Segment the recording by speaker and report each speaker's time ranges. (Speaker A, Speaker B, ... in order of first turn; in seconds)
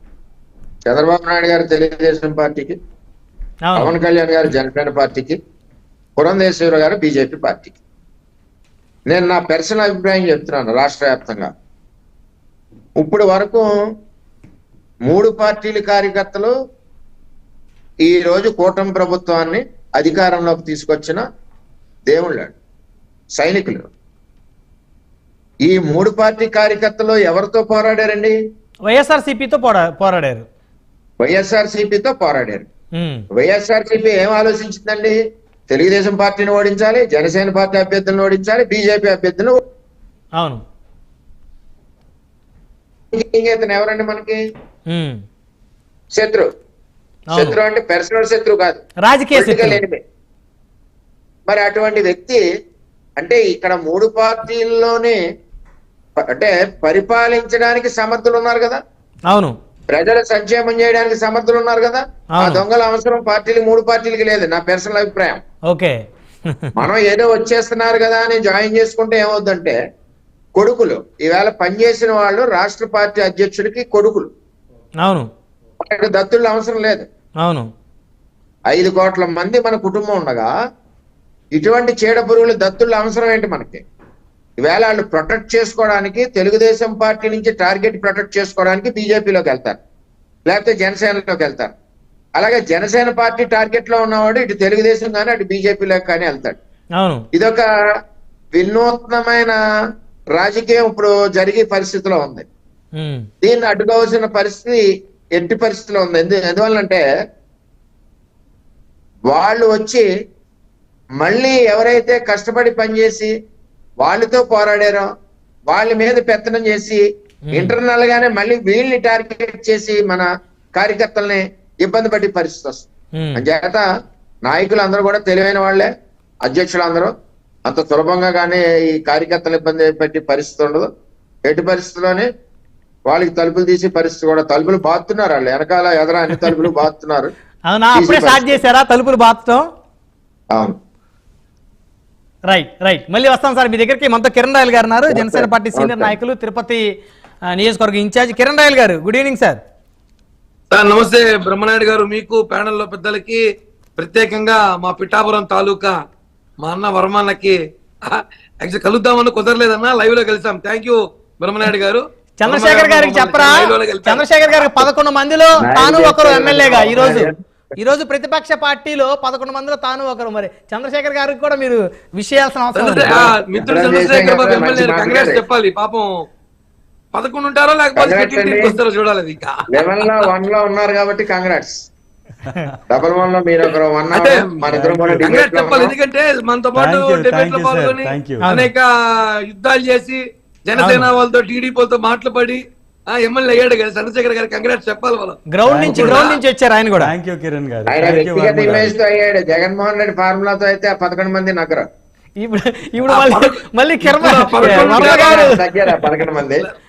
Speaker A: 0.9-2.8, 3.8-5.4, 6.2-7.8, 9.1-11.5, 13.0-13.7, 15.1-16.5, 18.0-21.2, 22.1-22.6, 23.4-23.9, 25.6-28.4, 31.2-32.7, 33.4-39.6, 43.1-44.4, 46.1-46.5, 47.3-48.8, 49.3-50.0, 51.5-52.4, 53.2-55.2, 56.2-58.8, 59.9-65.4, 66.8-69.8, 70.6-74.3, 75.8-77.1, 78.7-80.5, 81.5-83.8, 84.6-89.8, 90.5-91.7, 92.4-96.6, 97.3-97.7, 98.6-99.5, 100.3-102.5, 103.4-104.8, 105.4-107.0, 109.3-110.1, 111.2-113.3, 114.0-115.1, 115.7-117.0, 117.5-123.8, 124.5-125.9, 126.4-127.1, 127.7-130.9, 131.5-132.3, 133.1-137.3, 137.9-138.6, 140.5-140.8, 145.1-146.1, 165.6-167.3, 173.1-175.4, 178.0-178.8, 179.7-181.9, 182.9-185.9, 197.9-201.9, 204.6-206.7
Speaker B: 3.6-3.9, 28.9-30.4, 33.0-33.2, 44.9-45.2, 47.3-47.6, 49.0-49.8, 59.3-59.5, 62.3-62.6, 97.0-97.2, 103.0-103.3, 117.5-117.8, 123.2-123.4, 137.7-139.7, 142.5-146.8, 147.5-149.6, 162.4-173.2, 188.4-188.7, 190.8-191.1, 195.5-197.1, 202.4-205.6
Speaker C: 150.7-153.4, 154.0-156.0, 156.6-164.8, 172.8-176.2, 177.1-180.2, 184.1-184.6, 185.2-188.9, 189.4-196.4, 203.1-205.6, 206.4-206.7
Speaker D: 184.7-185.3, 186.8-188.5, 195.6-196.2, 197.0-199.0